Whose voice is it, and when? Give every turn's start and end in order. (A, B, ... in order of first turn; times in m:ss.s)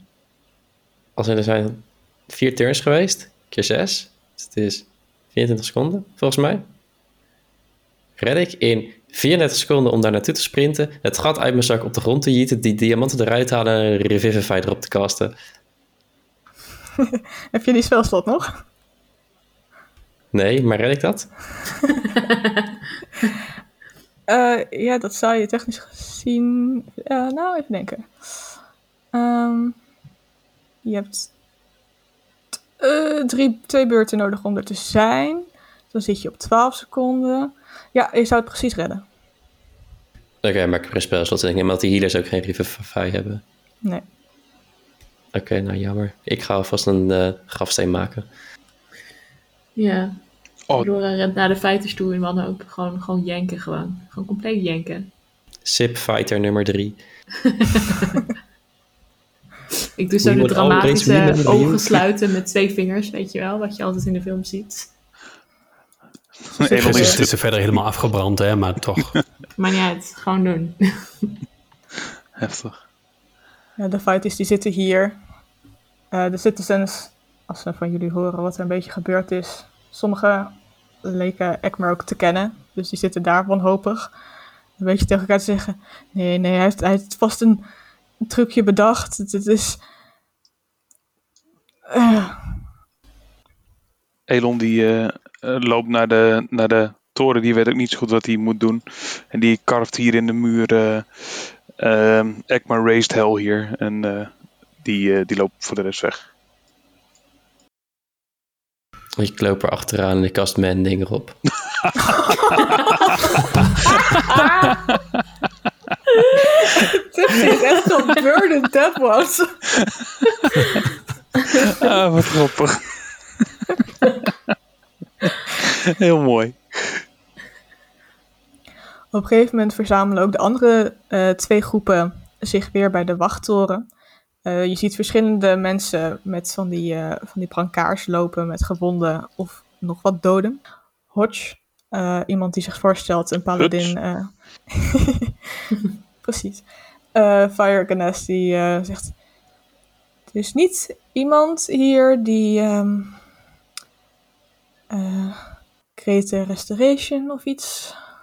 0:01.2-0:06.7 A
0:08.2-0:15.3 A
0:17.5-0:18.6 B
0:20.3-0:21.5 A
0:22.2-0:22.6 C
0:24.3-0:28.5 B
0:29.1-0:29.8 B
0:30.8-0:31.3 B
0:32.8-0:39.0 B
0:40.4-0:43.4 A
0:45.3-0:48.3 A
0:49.7-0:50.2 C
0:50.7-0:55.1 C
0:55.6-0:57.0 A
0:57.4-0:58.2 C
1:00.0-1:04.9 C
1:00.2-1:02.0 A
1:06.5-1:07.8 D
1:06.6-1:07.2 B
1:06.8-1:09.2 E
1:09.6-1:11.3 C
1:12.4-1:12.8 D
1:13.8-1:15.2 B
1:16.1-1:24.1 B
1:24.8-1:27.6 B
1:28.2-1:29.8 B
1:31.9-1:32.6 B
1:34.3-1:46.3 D
1:49.2-1:51.4 A
1:54.3-1:54.8 C
1:56.8-1:59.6 B
2:01.8-2:03.4 D
2:05.6-2:07.0 D
2:09.1-2:13.8 B
2:14.4-2:25.0 B
2:23.6-2:24.0 D
2:26.2-2:29.2 B
2:30.3-2:33.2 B
2:34.9-2:38.0 B